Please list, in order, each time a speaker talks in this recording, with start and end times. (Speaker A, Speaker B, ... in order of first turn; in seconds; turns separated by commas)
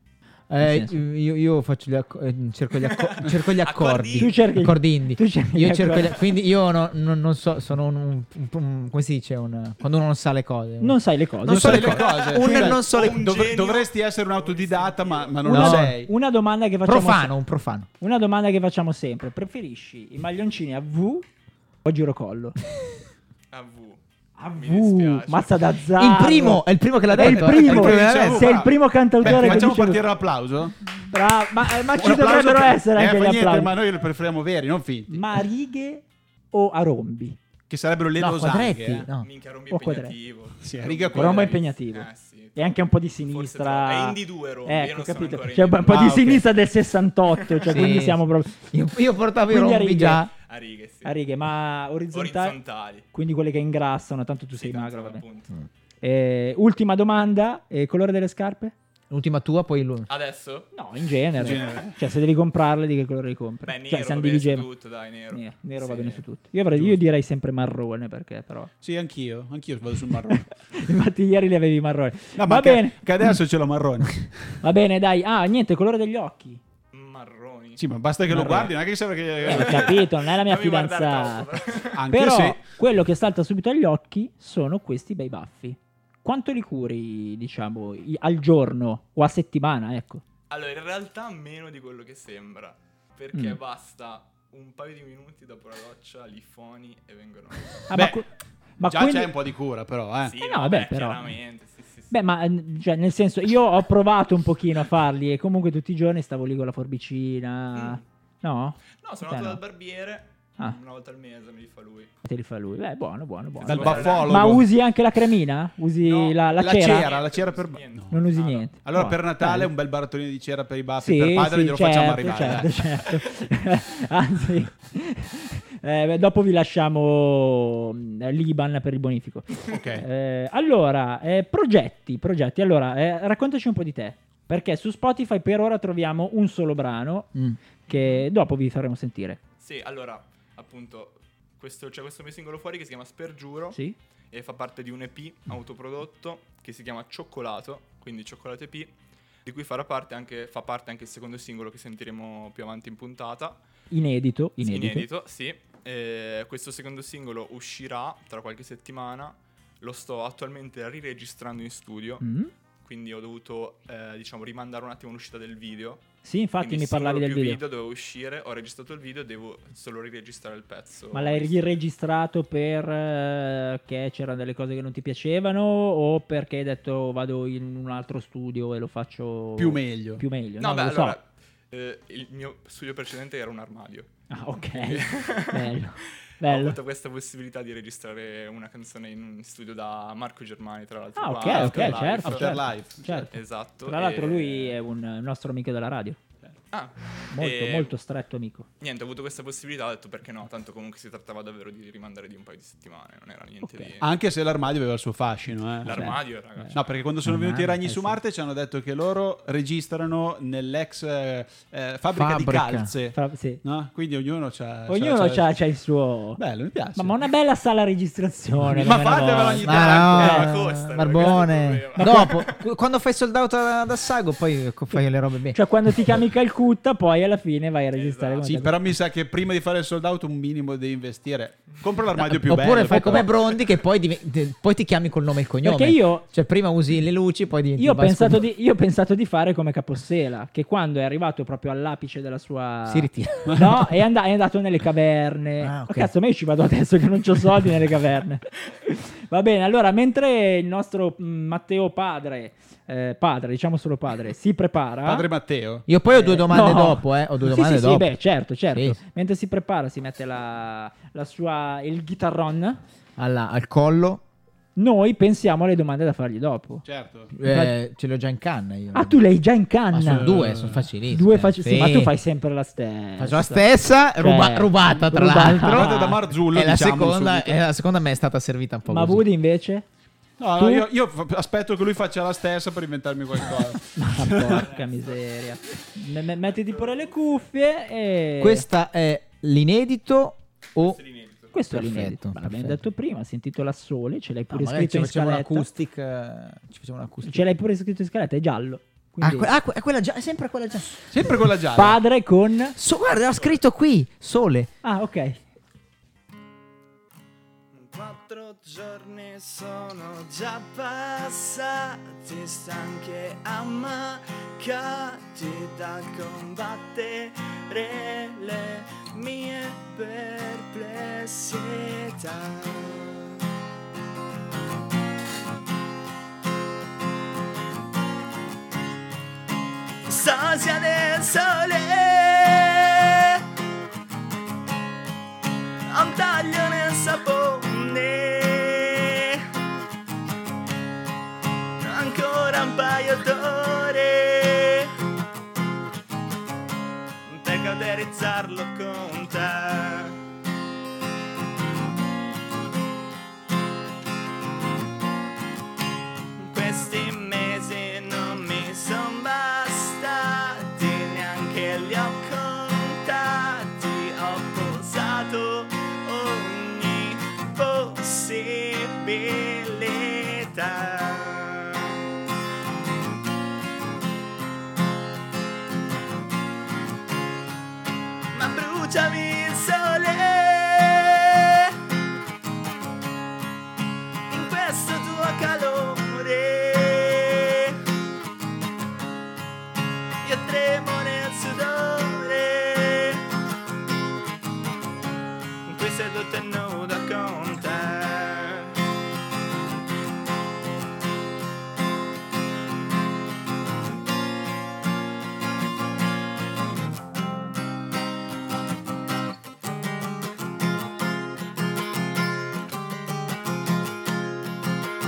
Speaker A: 0.5-13.2, Speaker B: 0.6-1.0, Speaker C: 2.8-4.4, Speaker B: 4.2-6.2, Speaker B: 10.8-12.0, Speaker D: 11.5-16.1, Speaker C: 12.0-15.5, Speaker B: 15.4-17.3, Speaker A: 15.5-16.0, Speaker A: 16.9-17.9, Speaker B: 18.0-21.3, Speaker B: 21.9-22.6, Speaker C: 23.5-24.0, Speaker B: 24.4-30.0, Speaker C: 24.5-25.6, Speaker A: 25.9-28.6, Speaker D: 27.1-30.8, Speaker B: 31.1-33.7, Speaker D: 31.9-35.2, Speaker B: 35.1-37.4, Speaker D: 37.7-39.1, Speaker A: 38.2-39.3, Speaker C: 39.1-42.7, Speaker B: 39.7-40.2, Speaker D: 40.6-41.6, Speaker B: 41.1-48.6, Speaker C: 43.2-46.1, Speaker D: 45.9-46.4, Speaker A: 47.7-50.3, Speaker B: 49.5-50.3, Speaker C: 50.4-51.1, Speaker B: 51.0-52.6, Speaker C: 52.1-53.0, Speaker B: 53.1-55.2, Speaker C: 54.5-55.5, Speaker B: 56.0-58.7, Speaker A: 59.1-60.1, Speaker C: 60.1-60.7, Speaker B: 60.7-64.7, Speaker D: 61.4-62.0, Speaker C: 63.6-66.2, Speaker B: 65.3-68.7, Speaker D: 68.8-70.4, Speaker B: 70.4-73.0, Speaker D: 72.4-74.3, Speaker B: 74.6-76.6, Speaker C: 76.9-77.8, Speaker D: 77.8-79.9, Speaker B: 78.3-78.7, Speaker B: 79.5-81.5, Speaker C: 79.5-82.0, Speaker D: 82.0-82.6, Speaker B: 82.1-90.2, Speaker C: 90.5-97.8, Speaker B: 93.3-93.6, Speaker B: 97.9-98.3, Speaker D: 97.9-98.2, Speaker B: 98.8-99.3, Speaker D: 98.8-100.3, Speaker C: 100.3-102.2, Speaker B: 100.4-101.4, Speaker B: 102.1-109.6, Speaker C: 107.8-108.0, Speaker C: 109.0-112.1, Speaker B: 112.2-117.1, Speaker C: 113.6-114.5, Speaker D: 113.7-114.7, Speaker C: 116.0-118.7, Speaker D: 116.6-118.2, Speaker B: 118.1-119.7, Speaker D: 118.8-122.7, Speaker B: 121.0-137.3, Speaker D: 129.7-130.1, Speaker B: 137.9-139.4, Speaker C: 139.6-143.8, Speaker C: 144.3-148.9, Speaker C: 149.4-153.6, Speaker B: 153.9-155.1, Speaker C: 154.6-162.2, Speaker B: 162.2-162.5, Speaker C: 162.8-166.1, Speaker B: 166.2-167.6, Speaker C: 166.6-171.8, Speaker B: 171.1-181.2, Speaker D: 179.6-180.2, Speaker C: 180.6-184.1, Speaker B: 184.3-186.8, Speaker C: 184.7-185.8, Speaker C: 186.4-192.6, Speaker B: 191.2-196.2, Speaker D: 191.5-193.3, Speaker C: 193.3-194.8, Speaker C: 196.7-197.9, Speaker B: 197.3-198.7, Speaker C: 198.8-204.1, Speaker B: 203.6-203.9, Speaker D: 204.0-215.5, Speaker C: 205.8-206.9, Speaker B: 205.9-206.8, Speaker A: 207.2-208.1, Speaker A: 212.1-212.9, Speaker B: 213.1-213.6, Speaker B: 214.9-216.4, Speaker D: 216.4-217.2, Speaker B: 216.9-220.5, Speaker D: 218.6-220.6, Speaker A: 219.6-226.2, Speaker C: 220.3-222.6, Speaker B: 222.0-222.4, Speaker B: 225.5-228.7, Speaker C: 227.9-228.5, Speaker D: 228.4-233.6, Speaker A: 232.2-238.5, Speaker B: 235.6-236.3, Speaker B: 237.8-255.3, Speaker A: 242.9-243.9, Speaker A: 245.6-246.1, Speaker D: 255.1-255.9, Speaker A: 255.9-258.1, Speaker B: 256.1-262.8, Speaker A: 258.7-259.0, Speaker A: 263.2-264.2, Speaker B: 264.8-266.9, Speaker D: 266.9-267.3, Speaker A: 267.3-269.2, Speaker B: 267.4-267.7, Speaker B: 268.9-270.4, Speaker A: 269.9-272.1, Speaker D: 270.1-270.9, Speaker B: 271.1-276.2, Speaker A: 273.2-279.2, Speaker D: 275.6-277.6, Speaker B: 278.9-279.9, Speaker D: 280.4-284.6, Speaker B: 280.6-280.9, Speaker B: 284.0-288.7, Speaker C: 284.6-285.2, Speaker C: 286.6-287.1, Speaker A: 288.4-291.0, Speaker C: 290.8-291.5, Speaker B: 291.5-295.7, Speaker A: 291.7-292.8, Speaker A: 294.5-297.5, Speaker B: 297.2-299.5, Speaker A: 299.2-301.1, Speaker D: 301.1-302.0, Speaker B: 301.8-302.8, Speaker A: 302.8-304.7, Speaker B: 304.8-305.4, Speaker E: 307.7-323.2, Speaker E: 330.1-333.4, Speaker E: 335.9-339.4, Speaker E: 341.8-344.9, Speaker E: 347.3-350.2, Speaker E: 356.4-371.8, Speaker E: 378.3-381.7, Speaker E: 384.3-387.8, Speaker E: 390.2-393.2, Speaker E: 395.6-398.8